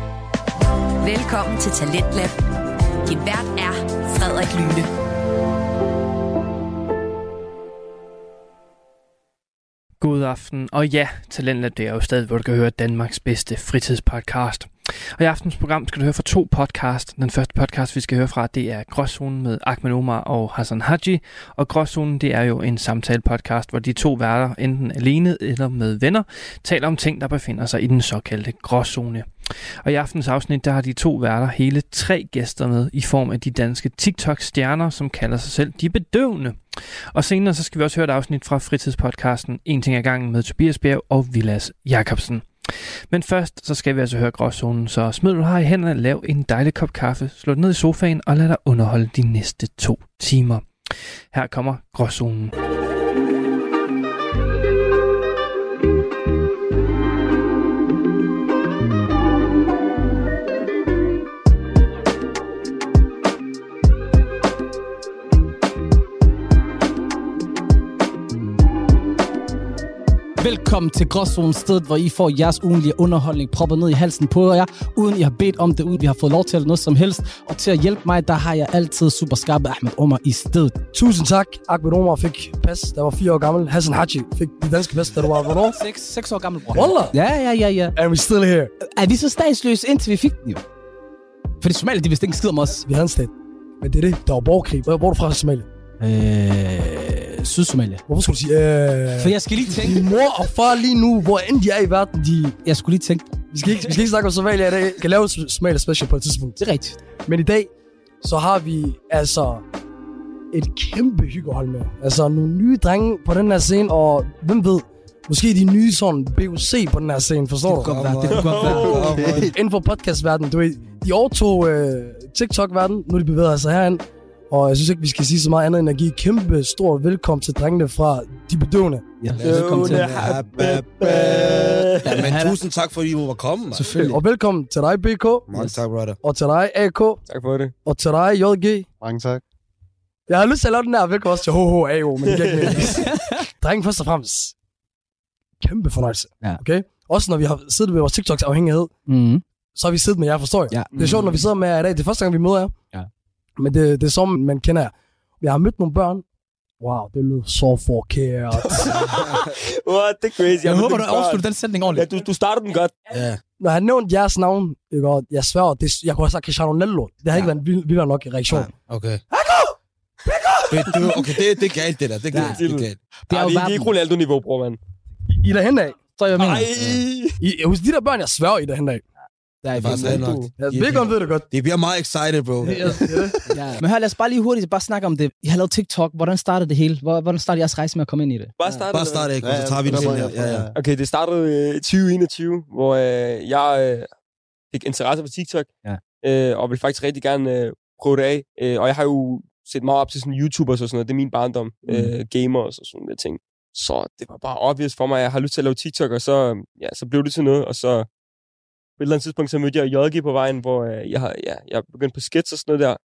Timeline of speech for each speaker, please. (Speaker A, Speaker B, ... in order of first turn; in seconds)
Speaker A: 1.0-2.4, 3.0-4.9
Speaker B: 10.0-29.3, 29.8-50.7, 51.3-52.5
Speaker C: 70.4-80.8, 85.7-88.0, 88.8-90.6, 91.6-92.8, 96.0-98.0, 99.2-100.0, 102.7-103.4, 106.6-107.0, 117.7-119.4, 129.2-130.2, 132.0-132.6, 133.7-134.2, 142.8-143.4, 149.1-149.4, 150.7-151.4, 160.6-162.1, 172.3-172.6, 173.3-173.9, 176.2-176.7, 179.6-180.3, 183.5-188.5, 190.2-190.7, 201.9-202.1
Speaker D: 80.9-85.8, 86.7-87.2, 88.0-88.7, 92.8-95.7, 98.1-102.6, 103.5-106.6, 107.3-107.7, 108.2-109.6, 110.5-118.0, 119.4-129.1, 134.0-135.5, 136.2-137.2, 137.8-138.9, 140.3-144.5, 145.6-148.9, 149.8-152.7, 153.6-156.2, 156.8-159.0, 163.6-168.7, 169.4-169.7, 170.4-170.9, 175.3-176.0, 177.4-179.0, 180.6-181.5, 182.6-183.4
Speaker E: 117.7-119.5, 129.3-133.9, 135.5-136.2, 159.0-159.3, 163.1-163.4, 168.9-169.2, 170.7-173.0, 176.8-177.0, 179.8-183.4, 188.9-190.7
Speaker F: 118.3-119.2, 129.4-132.1, 137.3-137.7, 142.2-142.9, 158.8-162.9, 172.3-174.8, 176.3-177.4, 180.0-180.5, 188.6-189.3, 190.8-194.1, 194.7-195.7, 196.2-208.1, 209.0-213.0
Speaker G: 118.8-119.6, 139.0-139.4, 189.4-190.8